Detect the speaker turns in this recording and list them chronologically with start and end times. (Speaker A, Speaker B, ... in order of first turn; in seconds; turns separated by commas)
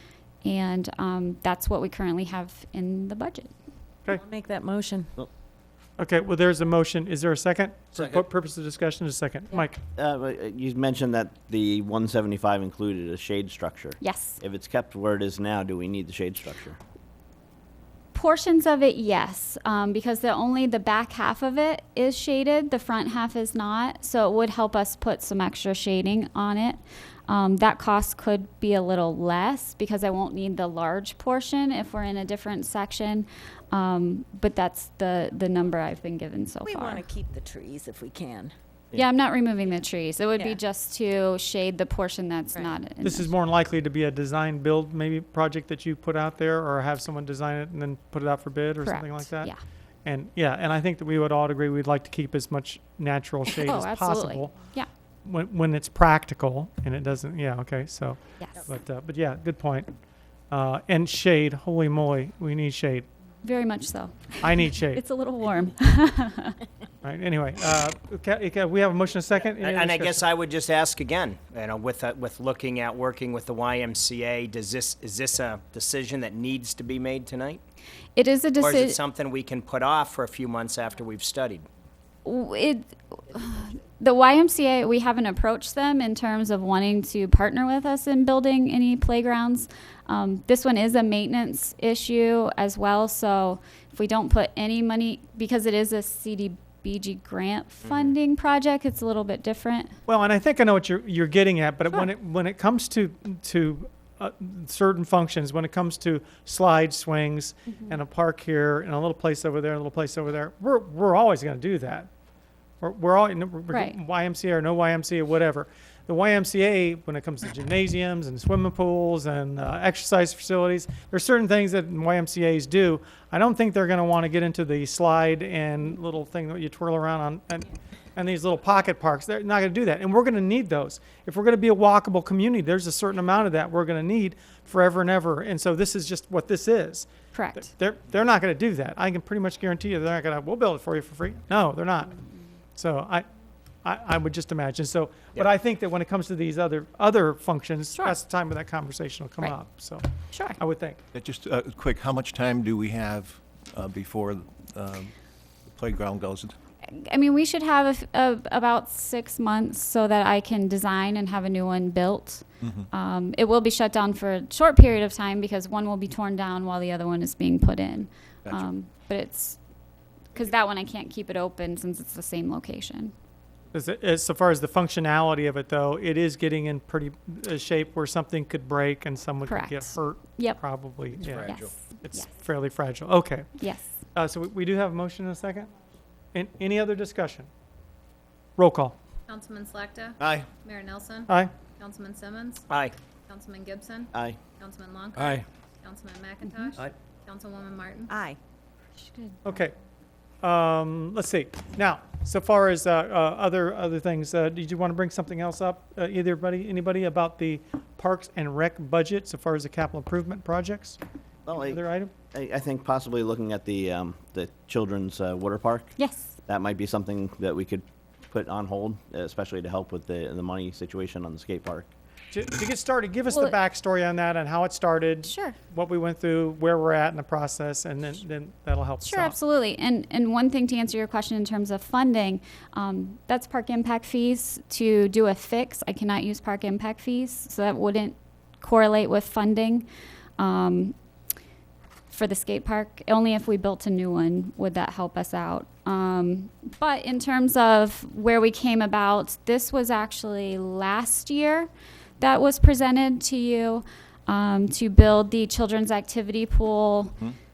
Speaker A: 0.4-3.5, Speaker B: 4.1-5.1, Speaker C: 6.0-9.8, Speaker D: 9.9-16.8, Speaker A: 14.0-14.4, Speaker A: 18.1-37.1, Speaker B: 36.6-38.5, Speaker A: 38.9-43.3, Speaker C: 43.0-49.5, Speaker A: 48.8-49.6, Speaker C: 50.0-54.5, Speaker A: 53.5-54.9, Speaker C: 55.2-59.9, Speaker A: 58.4-58.6, Speaker C: 60.5-63.1, Speaker A: 63.4-66.6, Speaker C: 64.4-65.0, Speaker C: 67.0-70.2, Speaker E: 69.6-77.6, Speaker A: 78.2-79.0, Speaker E: 78.6-81.7, Speaker A: 82.2-100.0, Speaker C: 100.1-112.1, Speaker C: 112.8-142.2, Speaker A: 113.7-114.0, Speaker A: 137.3-137.7, Speaker C: 142.7-143.2, Speaker C: 143.8-150.0, Speaker A: 150.3-150.6, Speaker C: 150.6-151.0, Speaker F: 151.1-155.1, Speaker F: 155.7-156.5, Speaker A: 156.8-169.6, Speaker A: 170.3-173.1, Speaker C: 173.7-183.5, Speaker A: 179.4-180.6, Speaker A: 181.4-182.3, Speaker A: 183.6-183.9, Speaker C: 184.1-185.7, Speaker C: 186.3-187.5, Speaker C: 188.6-188.9, Speaker G: 189.3-191.3, Speaker D: 190.2-190.5, Speaker G: 191.8-192.6, Speaker E: 192.7-192.9, Speaker G: 193.3-198.0, Speaker D: 194.1-194.4, Speaker F: 195.2-195.4, Speaker B: 198.1-198.4, Speaker C: 199.4-199.7, Speaker C: 200.4-211.0, Speaker D: 211.4-211.8, Speaker C: 211.6-212.1, Speaker D: 212.3-215.9, Speaker A: 216.0-216.4, Speaker D: 216.5-221.9, Speaker C: 222.3-229.4, Speaker A: 225.2-225.6, Speaker A: 229.0-239.9, Speaker A: 240.4-240.9, Speaker A: 242.1-257.1